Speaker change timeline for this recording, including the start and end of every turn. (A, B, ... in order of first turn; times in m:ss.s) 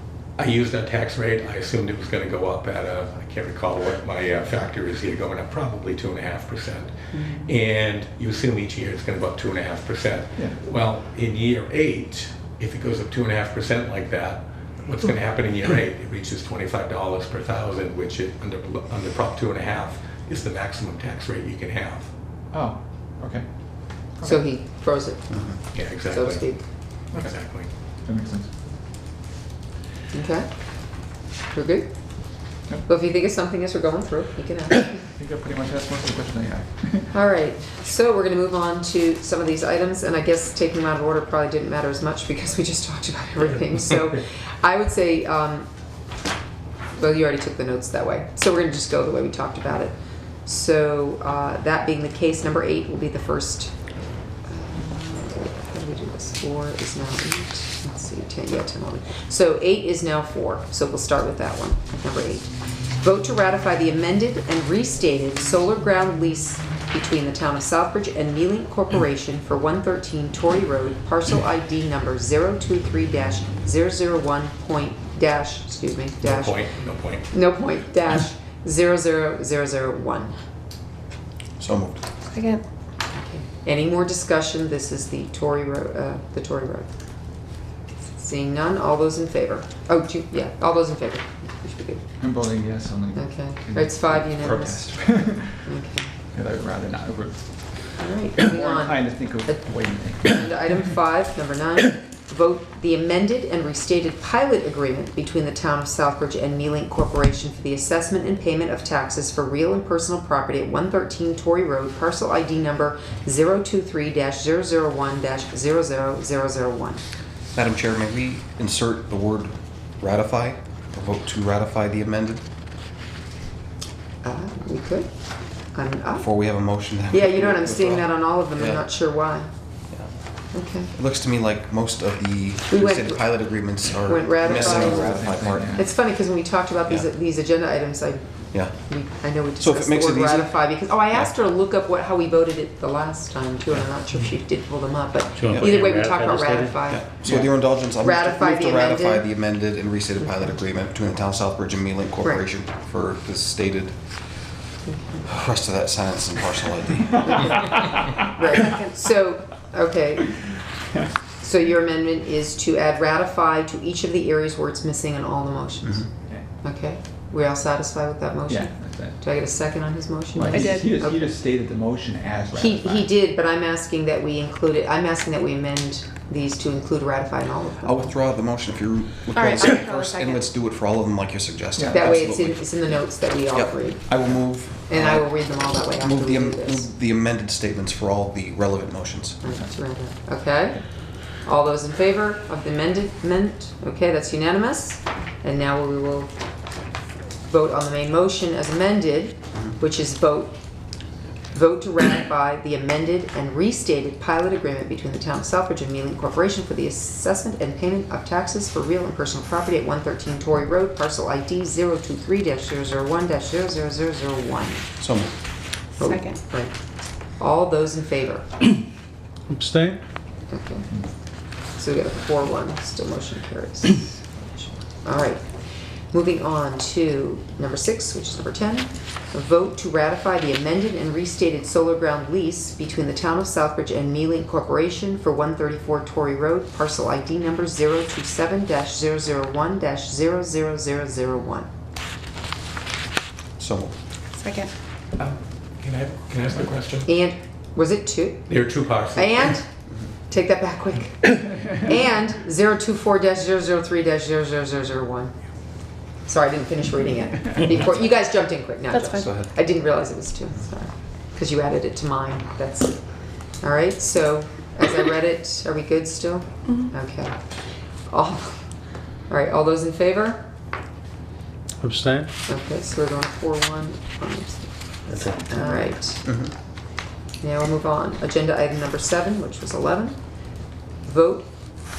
0:00.4-0:22.1 A
0:07.1-0:07.5 B
0:22.5-0:23.4 C
0:24.2-0:24.4 C
0:24.2-0:26.6 B
0:25.7-0:26.5 A
0:27.1-0:27.7 A
0:28.0-0:28.5 C
0:30.1-0:30.5 B
0:31.5-0:31.9 B
0:32.9-0:35.0 B
0:35.1-0:37.2 C
0:37.1-0:45.7 B
0:47.0-0:49.9 B
0:50.5-0:53.8 B
0:54.5-1:16.7 B
1:16.2-1:17.3 A
1:17.3-1:20.4 B
1:21.6-1:22.0 D
1:22.3-1:22.6 E
1:23.2-1:26.9 B
1:28.2-1:32.0 B
1:32.2-1:35.7 C
1:33.2-1:35.0 B
1:35.6-1:36.1 B
1:36.3-1:40.9 C
1:38.0-1:39.7 B
1:40.2-1:57.0 B
1:57.5-2:02.4 D
2:04.2-2:05.1 B
2:05.7-2:06.3 B
2:06.2-2:08.9 D
2:07.1-2:09.5 B
2:10.5-2:10.9 B
2:10.9-2:15.8 D
2:12.7-2:13.4 B
2:14.1-2:15.2 B
2:14.4-2:15.9 C
2:15.8-2:29.3 B
2:19.6-2:20.6 D
2:25.4-2:26.7 F
2:26.9-2:34.0 D
2:30.2-2:30.6 B
2:34.9-2:35.3 B
2:35.3-2:37.4 D
2:37.2-2:40.4 B
2:38.1-2:38.6 C
2:41.4-2:46.1 B
2:46.6-2:51.2 B
2:48.5-2:49.3 C
2:50.3-2:53.1 C
2:50.4-2:50.9 E
2:52.6-2:58.1 B
2:57.8-3:09.4 D
2:59.3-3:00.4 E
3:01.8-3:02.2 C
3:01.9-3:06.9 B
3:09.4-3:10.8 B
3:09.4-3:09.8 C
3:11.4-3:16.3 B
3:17.5-3:20.6 B
3:21.5-3:34.9 B
3:35.0-3:35.3 D
3:36.0-3:36.7 B
3:36.0-3:36.4 E
3:37.4-3:38.4 B
3:39.5-3:40.0 F
3:40.5-3:40.9 B
3:41.8-3:45.4 B
3:46.1-4:01.7 B
4:03.6-4:03.9 D
4:04.4-4:04.7 E
4:05.2-4:07.1 A
4:07.1-4:08.6 B
4:08.5-4:09.6 A
4:09.2-4:09.7 B
4:10.3-4:15.3 B
4:16.3-4:23.0 B
4:18.9-4:19.4 E
4:23.6-4:27.4 B
4:28.1-4:28.5 B
4:29.3-4:30.4 B
4:31.8-4:32.3 F
4:32.5-4:36.2 B
4:36.2-4:36.5 D
4:37.4-4:40.2 B
4:41.0-4:41.5 B